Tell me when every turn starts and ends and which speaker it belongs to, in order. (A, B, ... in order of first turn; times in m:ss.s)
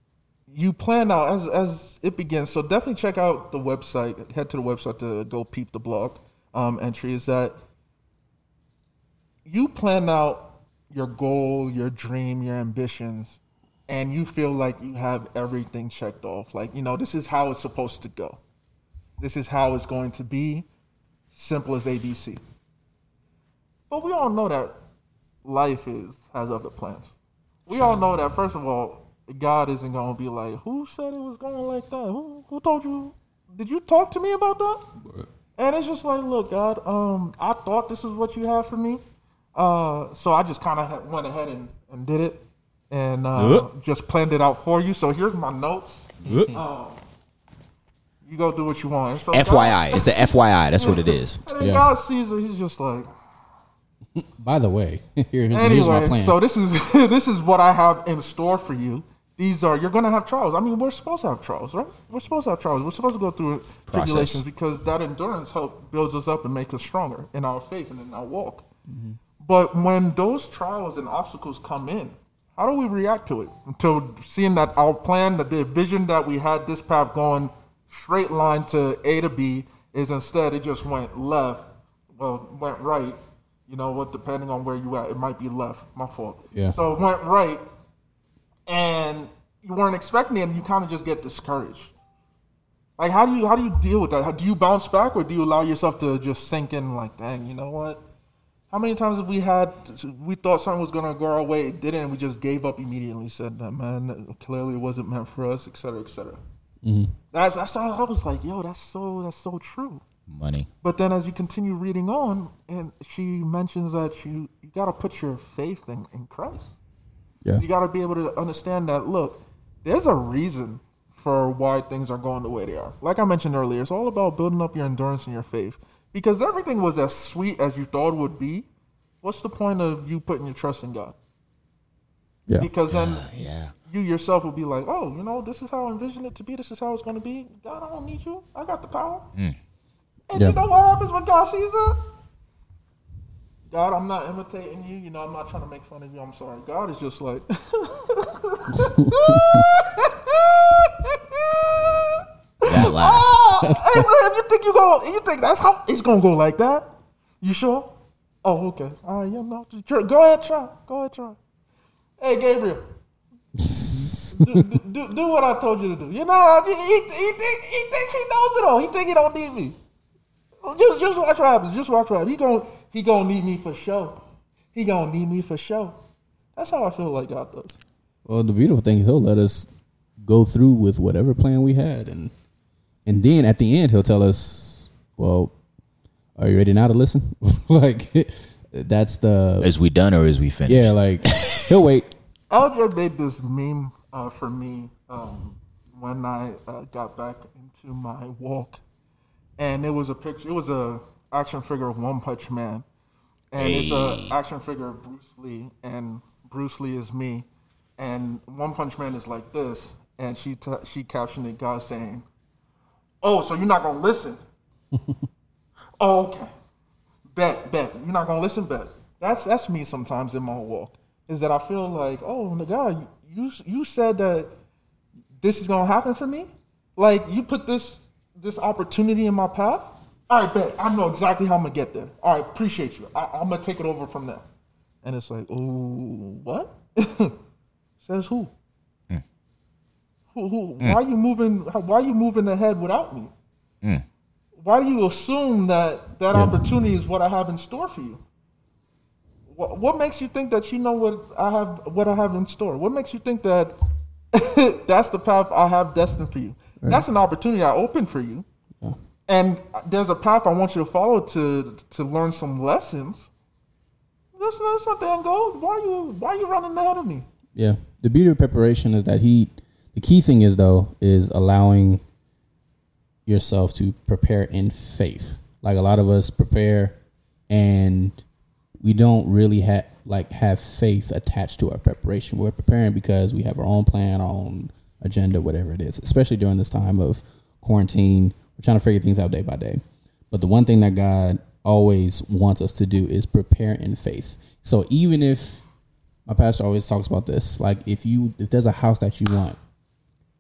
0:00.5-0:07.6 A
0:09.4-0:18.4 A
0:19.2-0:20.7 A
0:21.3-0:22.4 A
0:23.9-0:24.8 A
0:25.4-0:27.1 A
0:27.7-0:34.8 A
0:27.7-0:28.0 B
0:35.6-0:39.0 A
0:39.6-0:47.0 A
0:43.4-0:43.7 B
0:46.2-0:46.5 B
0:46.2-0:46.6 C
0:48.2-0:53.1 A
0:49.3-0:51.4 B
0:51.6-0:51.9 C
0:54.2-0:56.4 C
0:55.5-1:08.7 A
1:03.9-1:04.4 B
1:08.9-1:09.2 C
1:09.4-1:27.6 A
1:28.7-1:31.9 A
1:33.0-1:38.0 A
1:38.7-1:46.4 A
1:46.8-1:47.2 C
1:47.3-1:50.0 A
1:50.3-1:50.7 B
1:50.8-1:56.8 A
1:57.6-2:08.7 A
2:09.2-2:11.2 A
2:12.6-2:13.3 A
2:12.9-2:13.7 B
2:13.9-2:19.3 A
2:20.3-2:22.0 A
2:23.7-2:41.4 A
2:28.7-2:29.7 C
2:32.6-2:33.3 B
2:33.6-2:34.0 C
2:42.2-2:42.8 A
2:43.6-2:44.7 C
2:43.9-2:49.8 A
2:50.6-2:54.2 A
2:54.7-2:56.0 A
2:56.6-2:57.8 A
2:58.3-2:59.7 C
3:00.2-3:02.3 C
3:03.1-3:05.5 C
3:06.4-3:09.7 C
3:09.6-3:11.7 B
3:10.7-3:12.1 C
3:12.5-3:18.8 A
3:19.6-3:22.8 A
3:23.5-3:27.5 A
3:23.6-3:24.4 B
3:28.0-3:32.2 A
3:33.2-3:34.4 A
3:36.0-3:36.5 A
3:37.4-3:44.5 A
3:45.4-3:54.4 A
3:55.0-3:57.4 A
3:58.0-3:58.5 A
4:00.3-4:03.3 A
4:04.6-4:08.2 A
4:06.3-4:06.7 C
4:09.5-4:13.8 A
4:14.3-4:18.4 A
4:19.3-4:23.3 A
4:24.4-4:27.3 A
4:27.6-4:32.0 C
4:33.3-4:37.0 C
4:37.5-4:38.2 C
4:38.8-4:55.7 C
4:56.3-4:59.6 C